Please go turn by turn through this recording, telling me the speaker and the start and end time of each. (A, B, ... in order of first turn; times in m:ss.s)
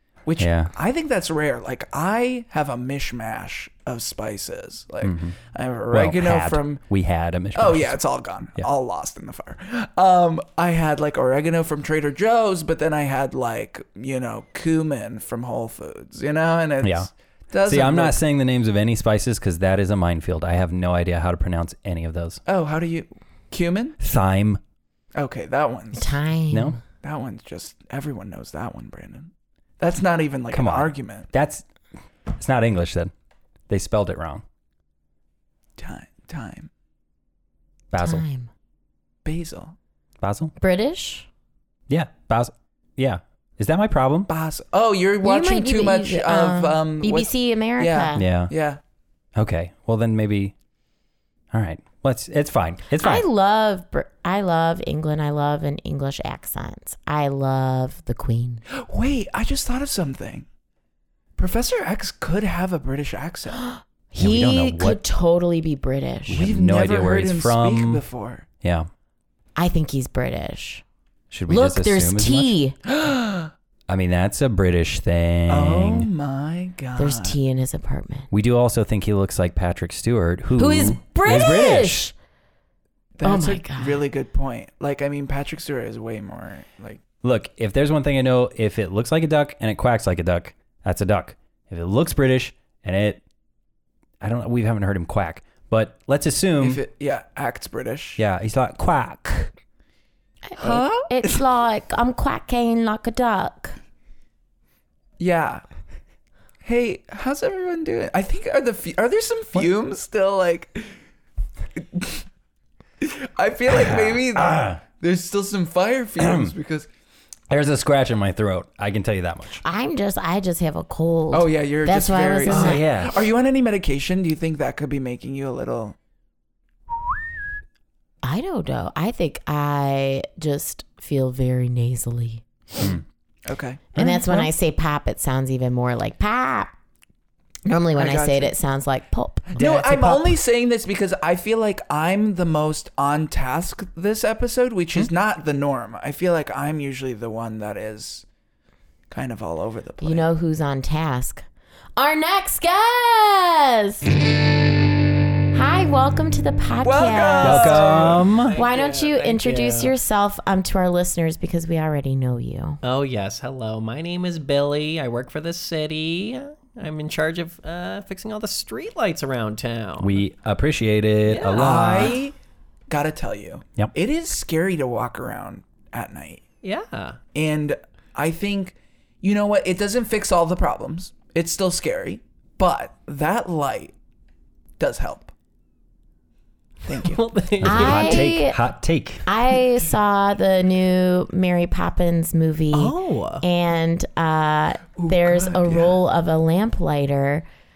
0:00.3-0:06.8 A
0:00.4-0:00.7 B
0:05.0-0:05.4 B
0:05.9-0:08.0 B
0:07.6-0:18.2 A
0:16.8-0:17.1 B
0:17.7-0:22.4 B
0:22.5-0:24.0 A
0:24.0-0:24.6 B
0:25.2-0:26.2 A
0:25.9-0:26.8 C
0:26.5-0:26.8 B
0:27.0-0:31.3 A
0:30.5-0:31.6 B
0:32.3-0:33.1 B
0:33.7-0:34.4 B
0:35.8-0:36.7 A
0:37.9-0:38.2 B
0:38.0-0:38.5 C
0:39.2-0:39.8 A
0:40.2-0:40.5 B
0:40.6-0:41.3 C
0:41.9-0:44.3 B
0:44.3-0:48.8 A
0:45.2-0:48.3 C
0:48.2-0:48.5 B
0:49.4-0:50.5 B
0:51.5-0:53.3 B
0:53.0-0:58.6 C
0:58.8-1:00.5 A
1:01.4-1:03.6 A
1:03.7-1:06.5 C
1:04.2-1:05.0 B
1:06.3-1:08.0 B
1:06.3-1:08.5 A
1:08.6-1:08.9 B
1:09.6-1:10.8 C
1:11.3-1:12.5 B
1:11.5-1:12.8 C
1:12.9-1:13.5 A
1:13.9-1:16.1 B
1:15.5-1:17.4 A
1:17.0-1:18.3 C
1:18.3-1:22.1 B
1:20.6-1:22.1 C
1:23.2-1:27.0 A
1:23.2-1:24.0 C
1:27.2-1:33.2 B
1:34.2-1:36.8 B
1:36.6-1:38.2 A
1:38.2-1:39.5 B
1:40.5-1:43.8 C
1:40.6-1:41.4 A
1:45.2-1:45.6 A
1:46.6-1:51.0 A
1:51.8-1:52.2 A
1:53.0-1:56.9 A
1:53.7-1:54.8 B
1:56.2-1:56.5 B
1:57.5-1:59.6 B
1:59.6-2:02.8 C
2:01.3-2:06.0 A
2:02.5-2:03.2 B
2:08.2-2:12.4 C
2:12.8-2:13.0 B
2:13.5-2:14.5 A
2:14.0-2:16.8 C
2:17.7-2:20.3 C
2:18.0-2:18.5 A
2:19.5-2:28.2 A
2:29.1-2:30.3 A
2:30.0-2:31.4 C
2:32.0-2:34.1 C
2:35.5-2:42.8 C
2:36.8-2:38.6 A
2:37.4-2:38.6 B
2:38.5-2:40.0 D
2:42.8-2:50.2 D
2:50.0-2:52.2 B
2:51.3-2:52.2 D
2:51.5-2:52.3 A
2:52.9-2:56.4 A
2:56.6-2:57.2 D
2:57.3-3:03.9 A
3:04.8-3:05.3 A
3:06.9-3:07.2 A
3:06.9-3:08.3 D
3:07.6-3:09.2 B
3:07.6-3:08.6 C
3:09.2-3:17.4 C
3:12.7-3:13.4 D
3:15.0-3:16.0 A